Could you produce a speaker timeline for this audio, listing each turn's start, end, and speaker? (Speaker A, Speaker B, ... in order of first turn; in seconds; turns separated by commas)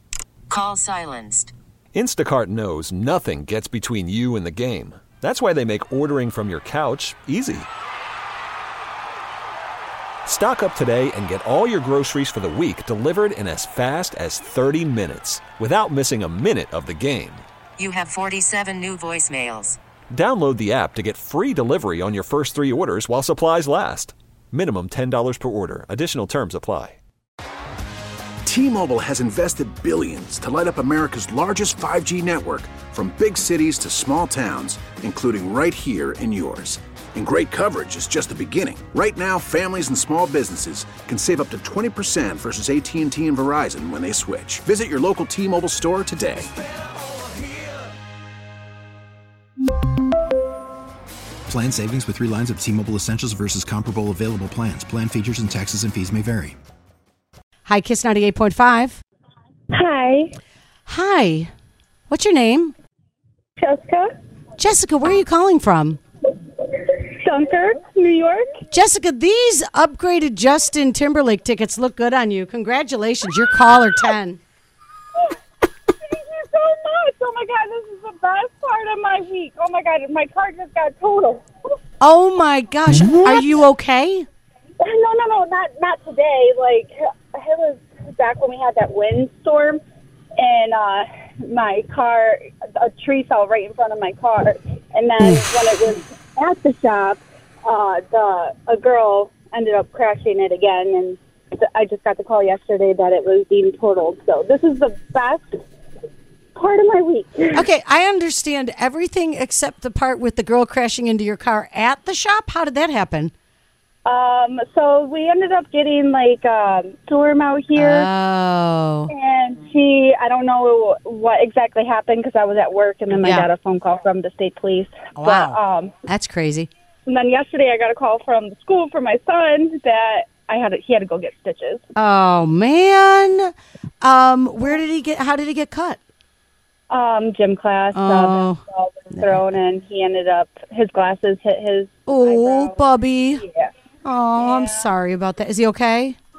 Speaker A: 0.5-1.5, Speaker B: 1.9-7.7, Speaker B: 10.2-17.4, Speaker A: 17.8-19.8, Speaker B: 20.1-27.0, Speaker C: 28.4-46.5, Speaker D: 51.5-56.5, Speaker E: 57.6-59.0, Speaker F: 59.7-60.3, Speaker E: 60.9-61.5, Speaker E: 62.1-62.7, Speaker F: 63.6-64.1, Speaker E: 64.6-66.0, Speaker F: 66.8-68.5, Speaker E: 68.7-74.4, Speaker F: 76.0-81.4, Speaker E: 82.0-84.2, Speaker F: 84.8-89.8, Speaker F: 90.4-105.5, Speaker F: 106.5-107.6, Speaker E: 107.5-113.3, Speaker F: 114.0-118.1, Speaker E: 117.7-119.1, Speaker F: 119.1-125.9, Speaker E: 123.2-123.5, Speaker E: 125.1-126.7, Speaker F: 127.0-131.8, Speaker E: 132.0-133.5, Speaker E: 134.0-136.0, Speaker F: 136.9-142.8, Speaker E: 137.9-138.6, Speaker E: 139.1-139.4, Speaker E: 142.1-143.4, Speaker F: 143.4-143.7, Speaker E: 144.0-146.2, Speaker F: 144.3-144.8